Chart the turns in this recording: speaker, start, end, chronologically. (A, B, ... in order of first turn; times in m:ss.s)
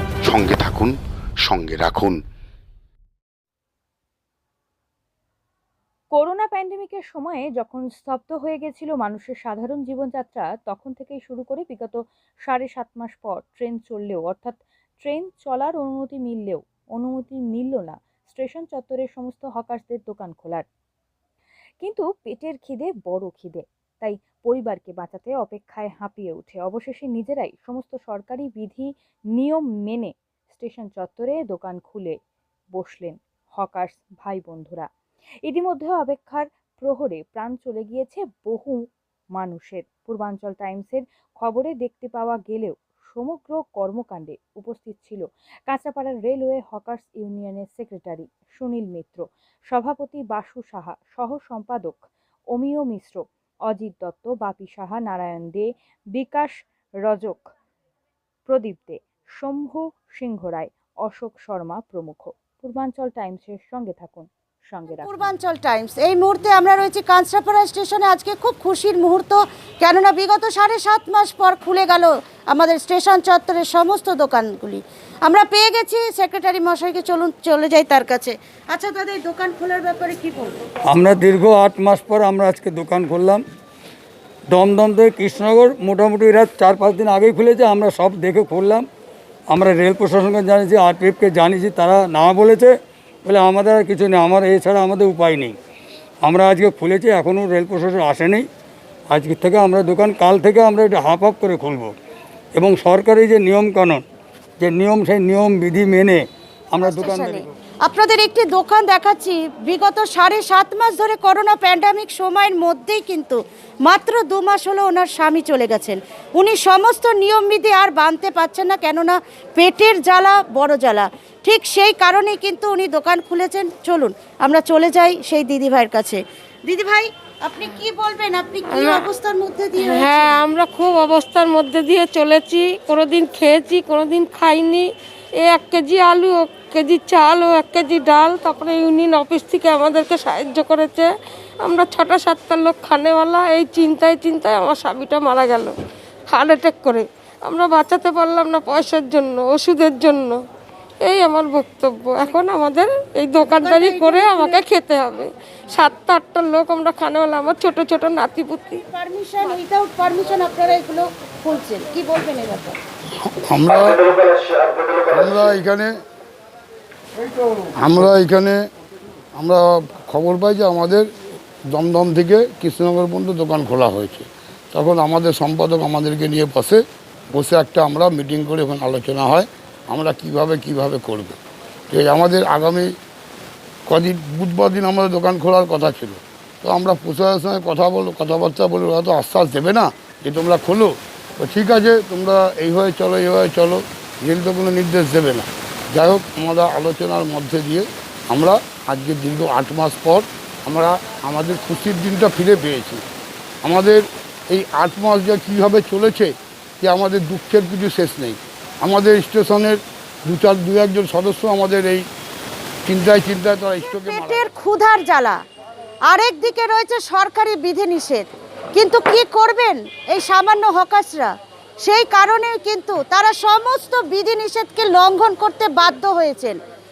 0:00.2-0:02.2 A
0:06.1-0:20.7 B
0:21.8-0:32.2 B
0:32.8-0:34.9 B
0:35.4-0:38.8 B
0:39.3-0:57.5 B
0:58.5-1:05.3 B
1:04.9-1:20.6 C
1:20.9-1:23.4 D
1:24.5-1:28.8 D
1:29.5-1:32.8 D
1:33.3-1:35.6 D
1:36.2-1:38.4 D
1:39.1-1:41.9 D
1:42.6-1:44.0 D
1:44.6-1:47.5 D
1:46.8-2:10.4 C
2:08.7-2:09.1 E
2:09.8-2:14.9 E
2:15.4-2:21.1 E
2:21.6-2:25.7 E
2:26.3-2:30.4 E
2:31.0-2:38.8 E
2:33.4-2:34.6 C
2:38.9-2:42.8 C
2:43.2-2:44.1 F
2:45.1-2:45.9 F
2:47.8-2:48.6 F
2:49.4-2:51.1 F
2:51.7-2:56.8 F
2:57.3-3:01.4 F
3:01.9-3:02.9 F
3:03.9-3:23.0 F
3:23.6-3:32.1 F
3:32.9-3:34.4 F
3:33.9-3:35.4 C
3:36.1-3:41.3 C
3:41.8-3:46.6 C